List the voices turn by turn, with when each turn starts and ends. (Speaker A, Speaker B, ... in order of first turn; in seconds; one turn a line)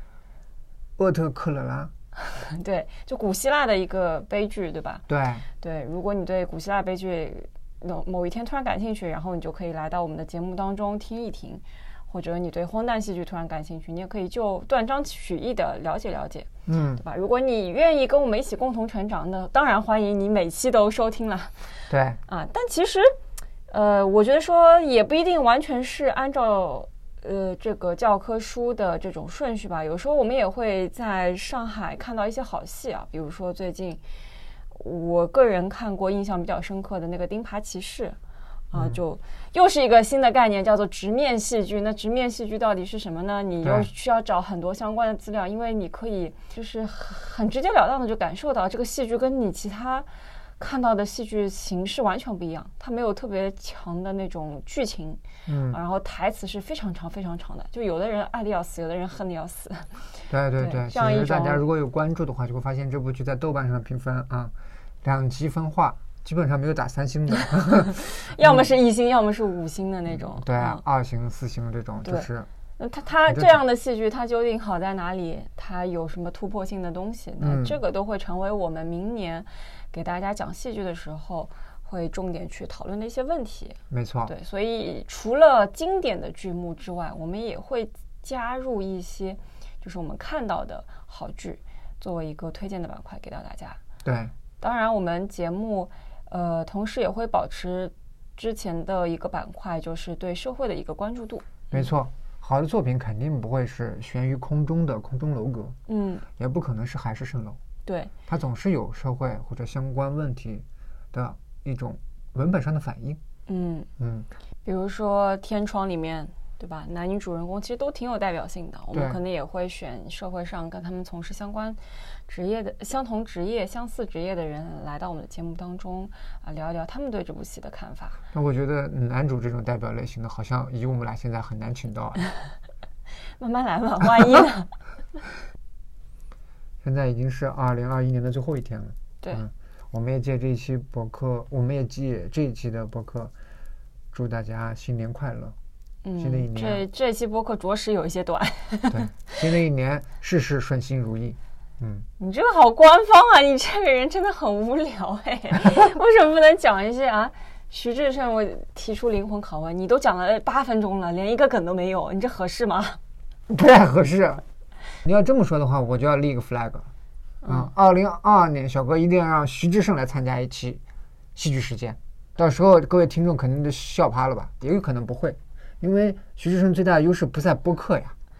Speaker A: 1.0-1.9
Speaker B: 2.2-5.0
Speaker A: 5.1-5.5
Speaker B: 5.6-23.1
Speaker A: 16.6-17.0
Speaker A: 21.9-22.2
Speaker B: 23.7-34.0
Speaker B: 34.7-38.2
Speaker B: 38.7-61.6
Speaker A: 38.7-39.0
Speaker A: 43.6-43.9
Speaker A: 55.5-55.8
Speaker A: 60.3-68.7
Speaker B: 68.2-70.8
Speaker A: 70.1-72.5
Speaker B: 72.0-93.8
Speaker A: 73.3-73.6
Speaker A: 77.4-77.8
Speaker A: 83.9-84.3
Speaker A: 94.0-94.3
Speaker B: 94.6-101.9
Speaker A: 101.7-105.7
Speaker B: 105.9-106.2
Speaker A: 106.4-107.6
Speaker B: 107.8-108.1
Speaker A: 108.3-113.2
Speaker B: 113.5-113.9
Speaker A: 114.0-114.3
Speaker B: 114.6-128.2
Speaker A: 118.9-119.2
Speaker A: 128.3-132.2
Speaker B: 133.4-134.7
Speaker A: 136.8-143.3
Speaker A: 144.1-145.5
Speaker B: 146.0-149.3
Speaker A: 146.2-146.8
Speaker A: 148.9-152.1
Speaker B: 152.2-163.0
Speaker A: 163.5-164.4
Speaker A: 165.0-166.9
Speaker B: 167.4-167.7
Speaker A: 167.5-170.8
Speaker A: 171.3-178.1